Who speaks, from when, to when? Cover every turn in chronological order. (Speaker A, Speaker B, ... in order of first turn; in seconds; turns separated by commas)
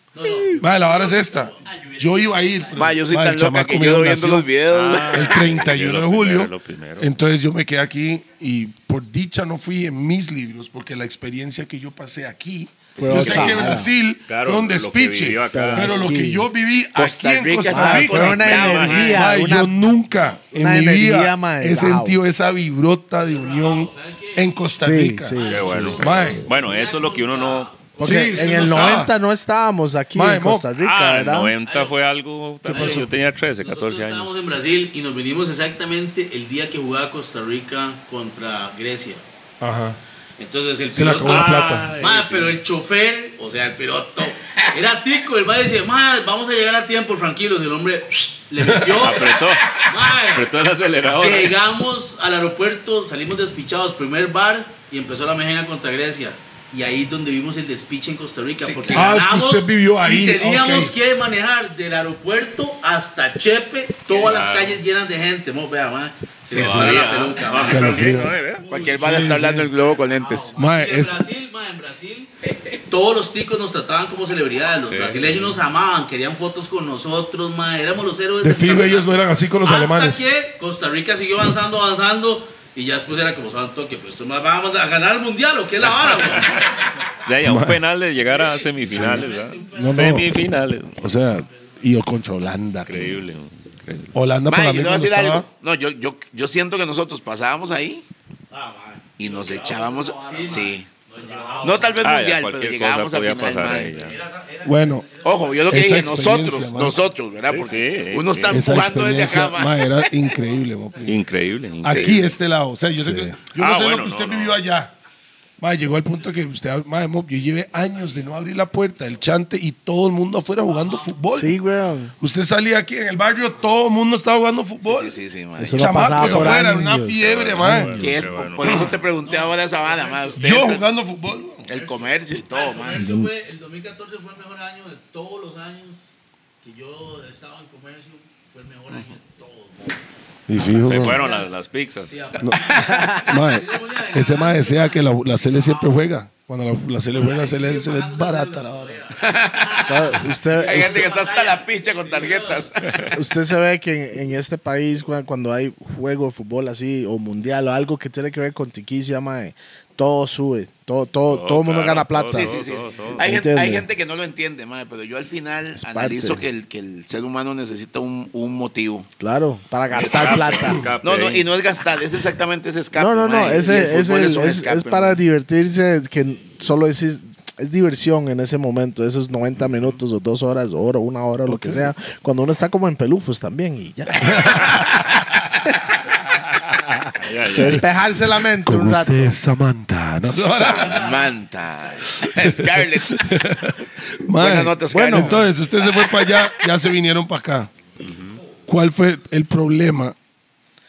Speaker A: 0.1-3.0, Speaker B: 0.6-4.5, Speaker C: 2.8-5.5, Speaker D: 4.7-7.1, Speaker B: 5.0-26.5, Speaker E: 13.0-13.9, Speaker C: 13.0-13.7, Speaker D: 14.3-16.1, Speaker E: 15.5-16.5, Speaker C: 16.9-19.3, Speaker E: 17.7-19.8, Speaker D: 18.2-19.2, Speaker E: 20.5-22.2, Speaker A: 23.2-24.5, Speaker E: 24.8-26.0, Speaker A: 25.3-29.1, Speaker D: 25.4-27.7, Speaker B: 28.0-29.1, Speaker E: 28.0-31.5, Speaker B: 30.1-30.7, Speaker D: 30.8-34.3, Speaker A: 31.6-32.0, Speaker B: 32.6-33.1, Speaker A: 32.7-33.1, Speaker A: 33.6-39.2, Speaker B: 39.6-40.0, Speaker A: 40.4-50.5, Speaker B: 40.9-41.9, Speaker D: 41.2-42.6, Speaker B: 48.6-49.1, Speaker D: 48.9-51.6, Speaker A: 51.1-72.3, Speaker C: 58.6-59.1, Speaker B: 58.9-61.0, Speaker D: 64.1-64.8, Speaker D: 66.5-68.7, Speaker C: 66.5-66.9, Speaker B: 66.5-69.7, Speaker C: 68.7-70.5, Speaker B: 70.5-71.2, Speaker C: 72.4-72.8, Speaker A: 72.9-87.1, Speaker D: 74.9-75.6, Speaker B: 78.4-80.3, Speaker D: 85.9-86.6, Speaker D: 87.2-91.0, Speaker B: 87.4-87.8, Speaker A: 88.2-90.2, Speaker B: 88.9-90.3, Speaker B: 91.0-93.2, Speaker A: 91.4-91.7, Speaker D: 92.8-94.1, Speaker B: 94.1-95.5, Speaker C: 94.5-98.0, Speaker A: 98.5-102.1, Speaker C: 99.2-100.9, Speaker C: 101.6-103.9, Speaker D: 102.0-104.3, Speaker A: 104.4-104.6, Speaker B: 104.6-107.0, Speaker C: 105.2-110.1, Speaker D: 107.5-108.8, Speaker B: 108.5-111.2, Speaker D: 111.0-112.3, Speaker B: 111.8-114.9, Speaker C: 111.9-112.2, Speaker E: 113.0-113.4, Speaker D: 113.5-114.6, Speaker B: 115.6-121.6, Speaker E: 121.3-122.1, Speaker B: 122.2-125.2, Speaker C: 124.8-126.5, Speaker E: 125.6-128.2, Speaker B: 125.8-128.0, Speaker D: 127.2-128.9, Speaker C: 128.0-130.9, Speaker B: 128.6-128.9, Speaker A: 129.2-130.7, Speaker B: 130.4-131.7, Speaker C: 131.7-133.1, Speaker A: 131.7-136.1, Speaker E: 132.9-133.3, Speaker A: 136.6-139.9, Speaker B: 140.5-141.2, Speaker A: 140.7-141.5, Speaker D: 140.7-142.2, Speaker A: 142.1-146.0, Speaker B: 142.4-142.7, Speaker E: 142.9-143.2, Speaker B: 143.2-149.1, Speaker A: 147.1-152.7, Speaker C: 149.2-153.2, Speaker E: 149.9-151.1, Speaker E: 153.1-162.6, Speaker D: 161.3-163.2, Speaker C: 162.3-169.1, Speaker E: 163.2-163.8, Speaker E: 165.8-166.4, Speaker E: 169.2-170.8, Speaker D: 169.9-171.5, Speaker C: 170.0-175.2, Speaker E: 172.9-184.8, Speaker D: 179.6-179.9, Speaker B: 181.5-181.9, Speaker B: 184.3-184.8, Speaker D: 187.2-187.9, Speaker E: 187.5-189.4, Speaker B: 187.5-191.2, Speaker C: 190.3-193.2, Speaker B: 192.1-197.7, Speaker C: 194.3-196.3, Speaker E: 194.9-195.5, Speaker D: 198.0-198.4, Speaker B: 198.7-200.2